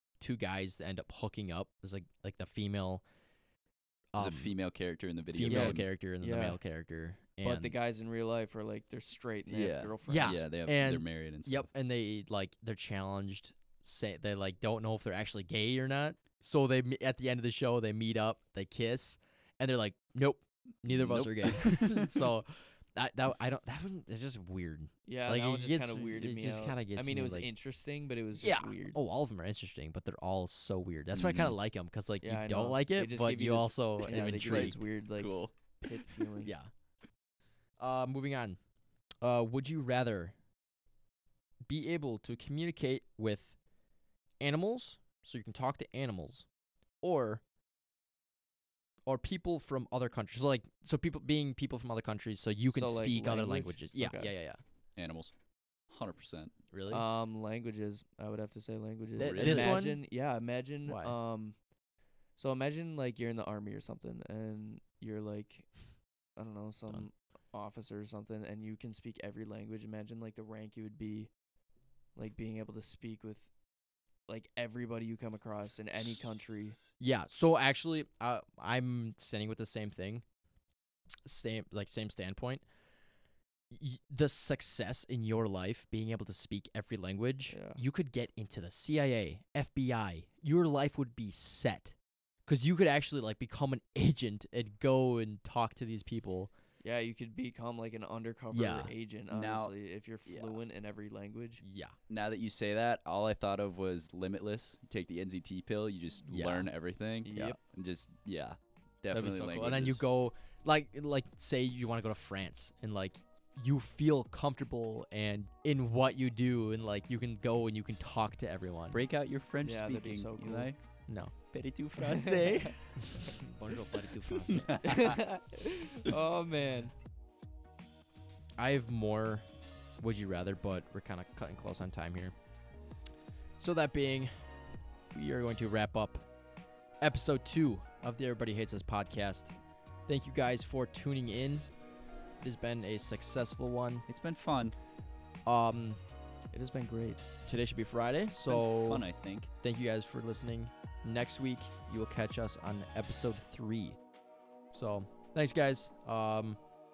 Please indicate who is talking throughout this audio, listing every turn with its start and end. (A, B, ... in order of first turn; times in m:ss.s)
0:00.2-0:03.0 A
0:04.1-0:04.5 A
0:04.2-0:05.9 B
0:05.3-0:07.7 A
0:05.4-0:06.6 C
0:07.4-0:10.4 C
0:09.5-0:11.7 B
0:10.0-0:27.5 A
0:20.9-0:22.3 B
0:25.0-0:29.0 C
0:28.4-0:34.8 A
0:31.1-0:31.6 B
0:32.2-0:36.5 C
0:34.3-0:35.5 B
0:36.4-0:36.7 A
0:37.8-0:38.6 A
0:39.2-0:40.3 A
0:41.6-0:43.6 A
0:44.4-0:46.4 A
0:47.0-0:47.4 A
0:49.0-0:54.6 A
0:52.7-0:54.3 C
0:55.0-0:55.3 B
0:55.9-0:56.5 B
0:56.7-0:57.0 A
0:56.9-1:01.6 C
0:59.2-0:59.8 B
0:59.2-1:00.0 A
1:00.8-1:01.1 A
1:02.4-1:05.7 C
1:06.4-1:11.3 C
1:12.2-1:13.5 C
1:14.3-1:16.8 C
1:17.0-1:20.2 A
1:21.2-1:22.6 A
1:23.7-1:31.9 A
1:27.5-1:27.8 C
1:32.4-1:36.5 A
1:36.8-1:41.6 C
1:38.5-1:38.9 A
1:39.3-1:39.7 B
1:40.2-1:40.6 B
1:41.6-1:42.0 A
1:42.1-1:50.0 B
1:46.3-1:46.7 A
1:47.2-1:47.6 C
1:47.3-1:47.6 A
1:49.1-1:59.0 A
1:58.9-2:00.8 B
1:59.6-2:00.7 C
2:01.1-2:01.3 A
2:01.5-2:03.4 B
2:02.0-2:02.7 C
2:03.1-2:04.8 A
2:04.3-2:05.2 B
2:04.8-2:06.9 C
2:08.6-2:09.4 A
2:10.0-2:12.3 A
2:13.6-2:14.3 A
2:15.1-2:16.2 A
2:17.0-2:19.5 A
2:20.0-2:21.6 A
2:22.4-2:24.0 A
2:24.1-2:24.7 B
2:25.4-2:26.0 A
2:26.5-2:27.2 C
2:27.4-2:29.0 A
2:28.4-2:29.5 B
2:29.6-2:34.0 A
2:34.7-2:36.6 A